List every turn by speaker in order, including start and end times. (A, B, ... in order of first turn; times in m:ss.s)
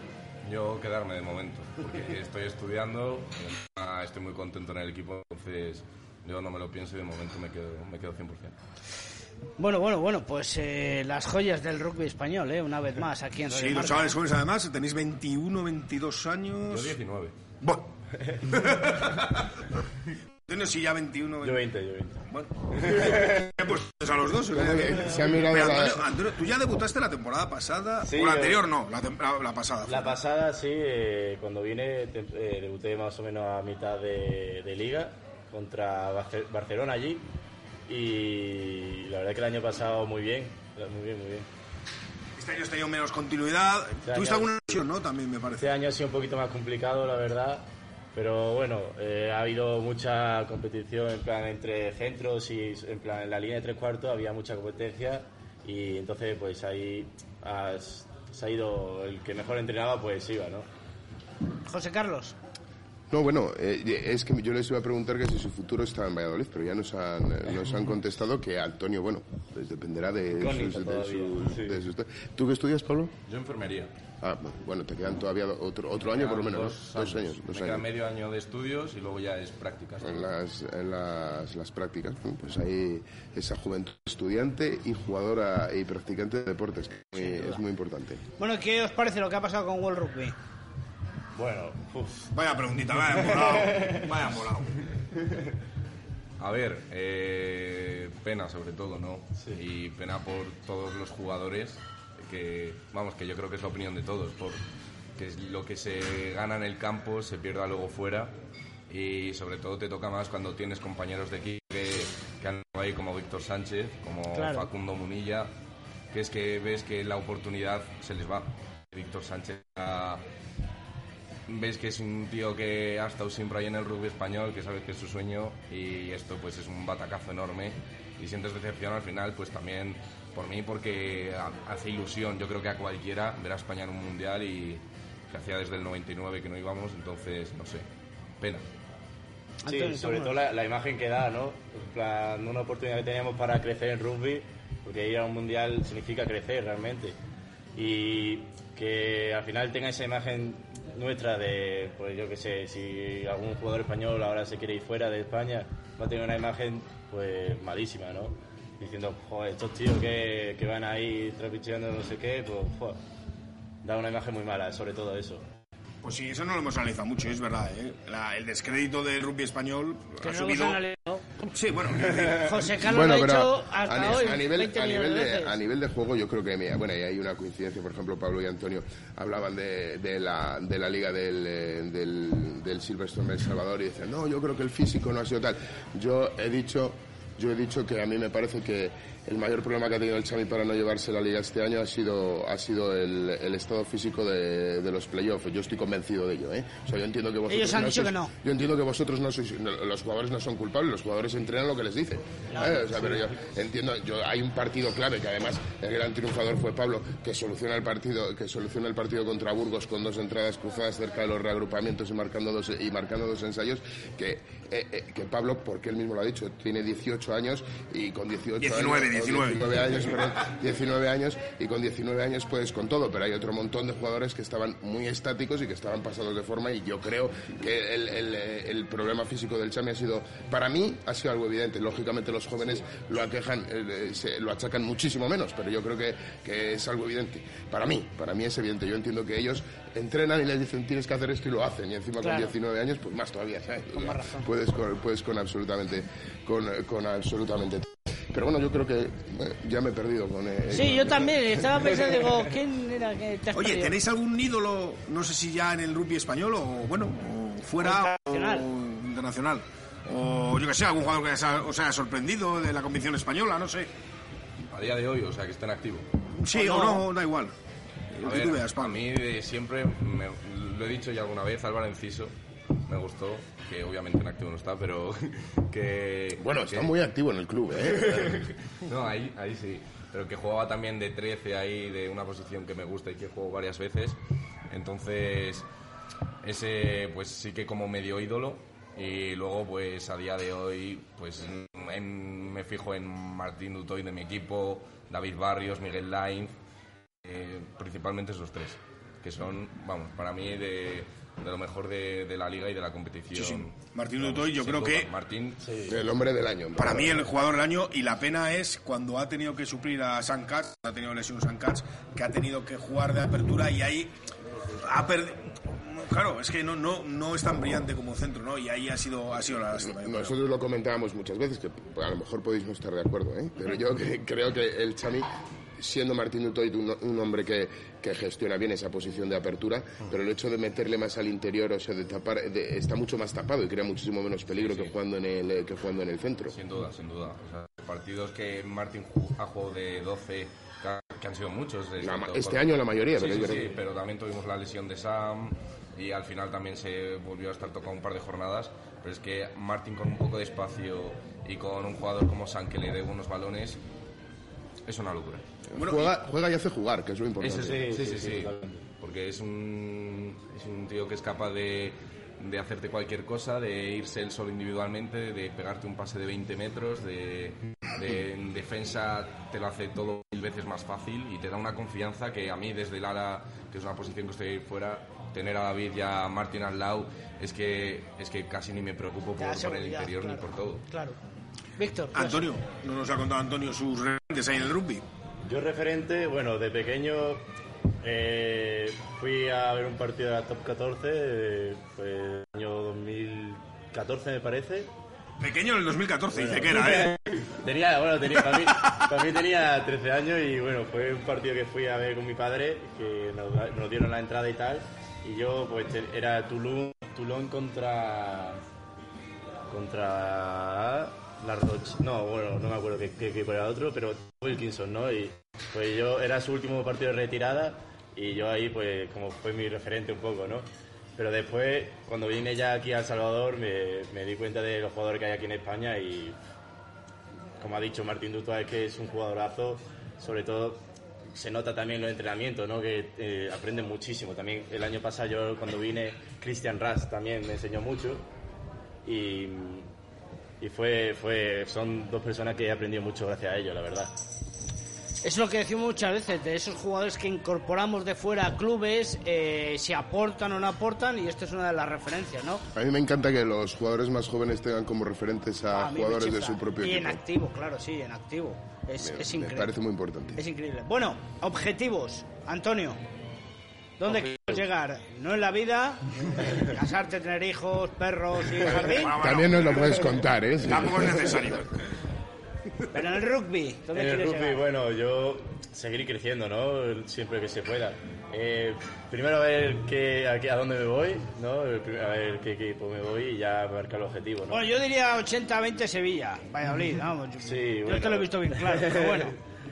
0:00.4-0:08.6 A
0:09.6-0:14.2 B
0:13.5-0:17.0 C
0:16.7-0:17.4 A
0:18.2-0:18.5 D
0:18.4-0:19.5 C
0:20.5-0:21.7 C
0:21.4-0:22.2 D
0:22.3-0:30.2 C
0:22.8-0:23.5 D
0:24.5-0:26.1 E
0:28.0-0:28.7 D
0:29.9-0:37.2 D
0:37.9-0:41.5 D
0:42.4-0:45.8 C
0:44.0-0:44.5 D
0:45.6-1:00.7 D
1:01.7-1:02.4 B
1:03.1-1:13.1 E
1:10.4-1:11.8 D
1:13.3-1:13.9 A
1:14.2-1:17.8 E
1:16.0-1:20.3 A
1:20.0-1:28.2 E
1:28.4-1:30.4 B
1:31.4-1:32.3 D
1:32.3-1:34.7 C
1:32.9-1:34.1 D
1:36.4-1:44.6 A
1:45.2-1:48.3 A
1:48.9-1:55.5 A
1:54.3-1:54.7 B
1:56.1-2:00.2 A
2:01.5-2:17.8 A
2:18.4-2:18.6 A
2:19.6-2:20.4 B
2:19.7-2:27.2 D
2:27.8-2:43.0 D
2:43.8-2:45.4 D
2:46.0-2:50.8 C
2:50.2-2:51.2 B
2:51.4-2:52.8 C
2:52.4-2:55.6 B
2:52.8-4:12.0 E
3:17.5-3:18.3 B
3:22.5-3:22.8 B
3:38.6-3:40.2 C
4:02.2-4:02.5 B
4:03.9-4:04.5 B
4:10.7-4:14.0 B
4:13.6-4:23.9 C
4:17.8-4:18.6 B
4:24.7-4:26.1 A
4:26.4-4:27.5 C
4:26.5-4:27.1 B
4:28.1-4:29.0 C
4:28.2-4:32.3 A
4:32.9-4:36.9 A
4:36.4-4:38.4 E
4:37.9-4:44.2 A
4:44.7-4:45.7 A
4:46.4-4:56.6 A
4:57.2-5:05.7 A
5:03.3-5:05.1 C
5:05.6-5:06.0 D
5:05.8-5:07.3 E
5:06.8-5:14.1 C
5:14.8-5:20.4 C
5:19.8-5:36.6 E
5:34.5-5:35.0 A
5:36.5-5:53.8 A
5:42.0-5:43.8 E
5:54.9-5:55.4 A
5:55.7-5:58.4 E
5:55.8-5:56.1 C
5:57.4-6:20.8 A
5:57.4-5:58.8 D
6:19.4-6:21.2 B
6:21.8-6:22.5 B
6:22.1-6:25.0 C
6:25.4-6:27.4 D
6:28.0-6:34.9 D
6:35.4-6:37.2 C
6:36.3-6:48.6 D
6:49.7-7:06.4 D
7:07.6-7:10.8 D
7:11.3-7:18.2 D
7:19.0-7:19.9 D
7:20.6-7:24.1 D
7:25.2-7:32.6 B
7:32.7-7:37.2 E
7:35.7-7:39.7 B
7:39.0-7:40.4 E
7:40.4-7:43.0 B
7:44.0-7:49.1 B
7:48.6-7:51.8 C
7:49.1-7:51.5 E
7:52.9-7:54.6 B
7:53.9-8:04.7 D
8:04.5-8:09.4 B
8:07.4-8:09.4 D